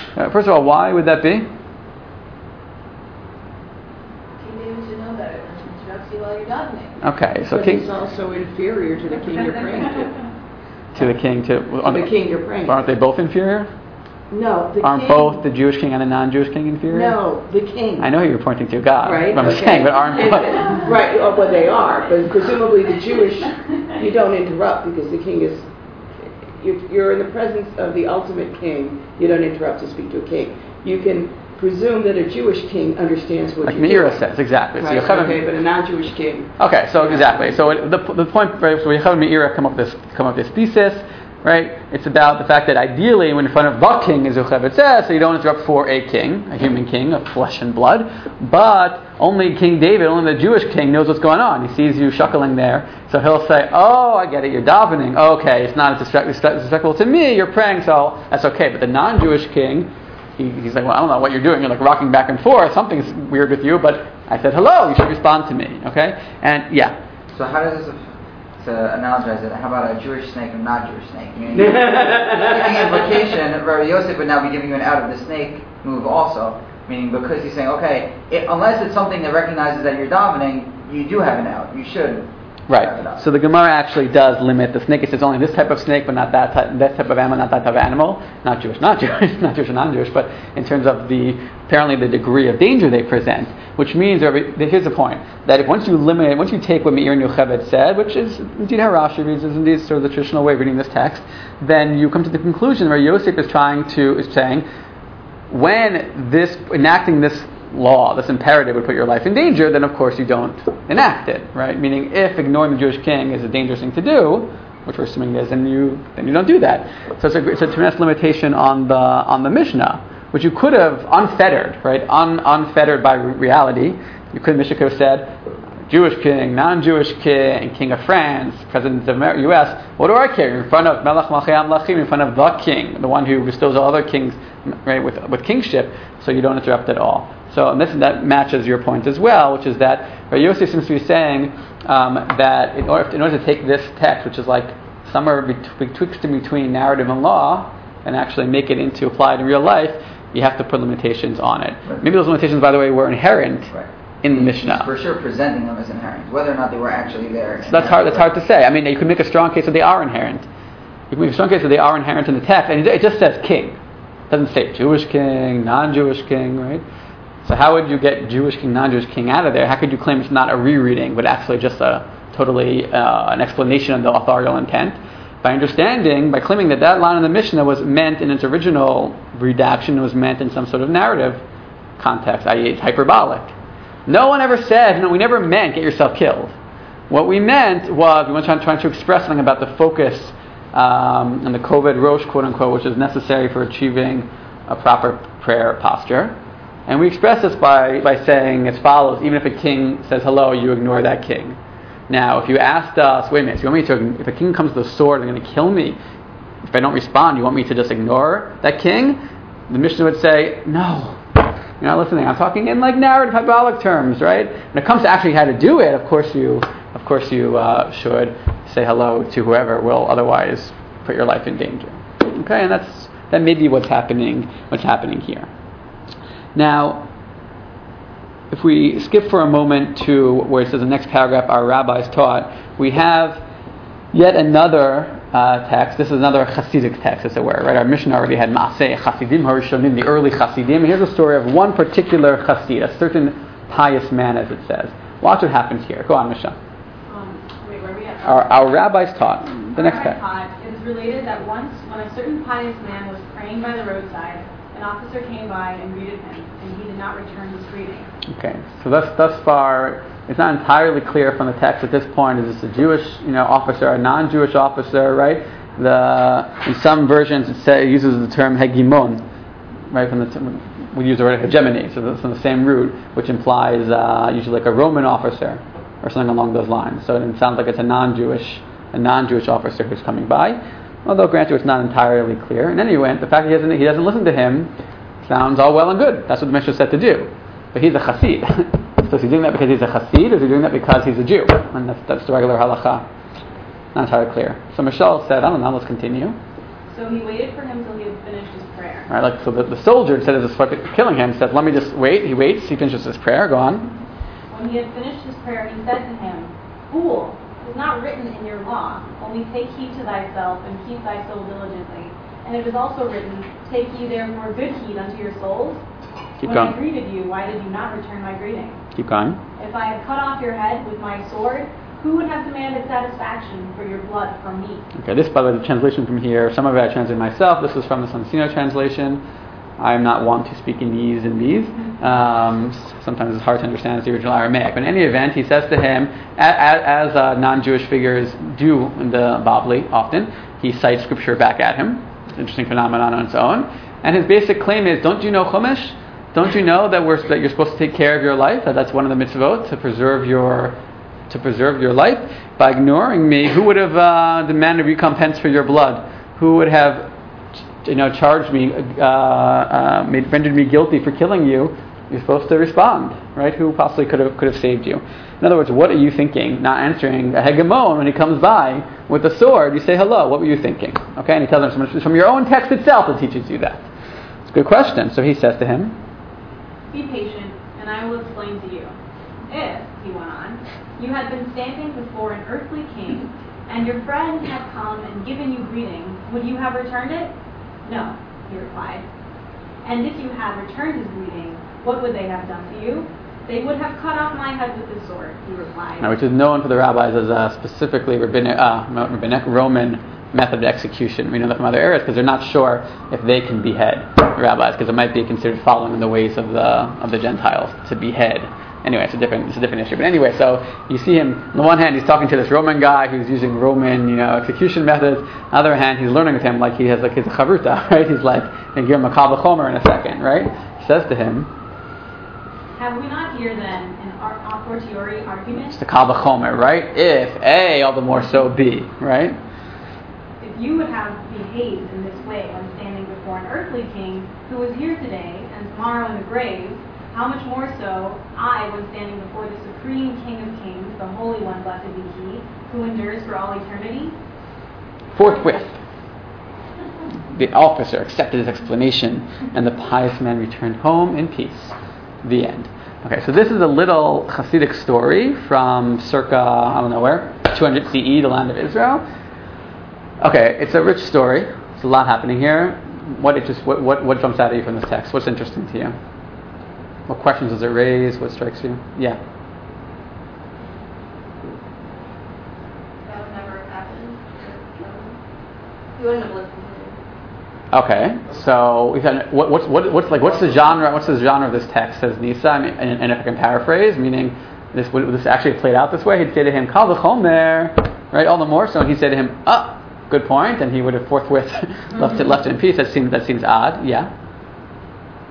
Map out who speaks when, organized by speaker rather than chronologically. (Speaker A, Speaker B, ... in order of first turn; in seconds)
Speaker A: 0.2-1.5, 7.0-7.9, 10.9-12.1, 12.6-13.7, 14.8-17.2, 18.0-20.8, 33.6-35.4, 36.6-67.0, 82.7-104.7, 105.5-125.3, 125.9-153.7, 154.2-154.9, 157.7-160.5, 161.1-163.8, 164.3-166.8, 167.4-181.4, 182.0-183.5, 184.1-186.6, 187.1-196.3, 196.9-201.6, 202.1-206.0, 206.7-211.2, 211.8-225.5, 226.6-227.1, 228.5-233.4, 234.1-246.6, 248.2-250.2, 258.3-269.2, 269.9-284.7, 285.2-293.1, 293.9-296.4, 299.1-304.0, 316.4-316.8, 318.9-319.4, 325.0-329.2, 329.8-350.8, 351.3-357.1, 357.8-373.8, 374.5-376.0, 396.0-421.5, 425.7-429.4, 445.1-445.8, 447.3-459.0, 460.2-465.9, 467.1-469.2, 477.7-494.1
Speaker B: 4.4-7.0, 473.0-475.2, 476.0-477.0
Speaker C: 7.5-10.1, 11.8-12.8, 14.3-15.4, 16.9-18.1, 19.0-25.7, 26.6-34.2, 34.8-36.5, 71.5-73.1
Speaker D: 67.3-83.2, 153.7-158.3
Speaker E: 247.1-248.7, 249.7-258.1, 296.9-299.1, 304.5-315.8, 316.4-318.8, 319.6-324.8, 376.9-378.9, 379.5-387.3, 387.9-389.1, 389.8-396.1, 422.8-425.8, 430.4-444.1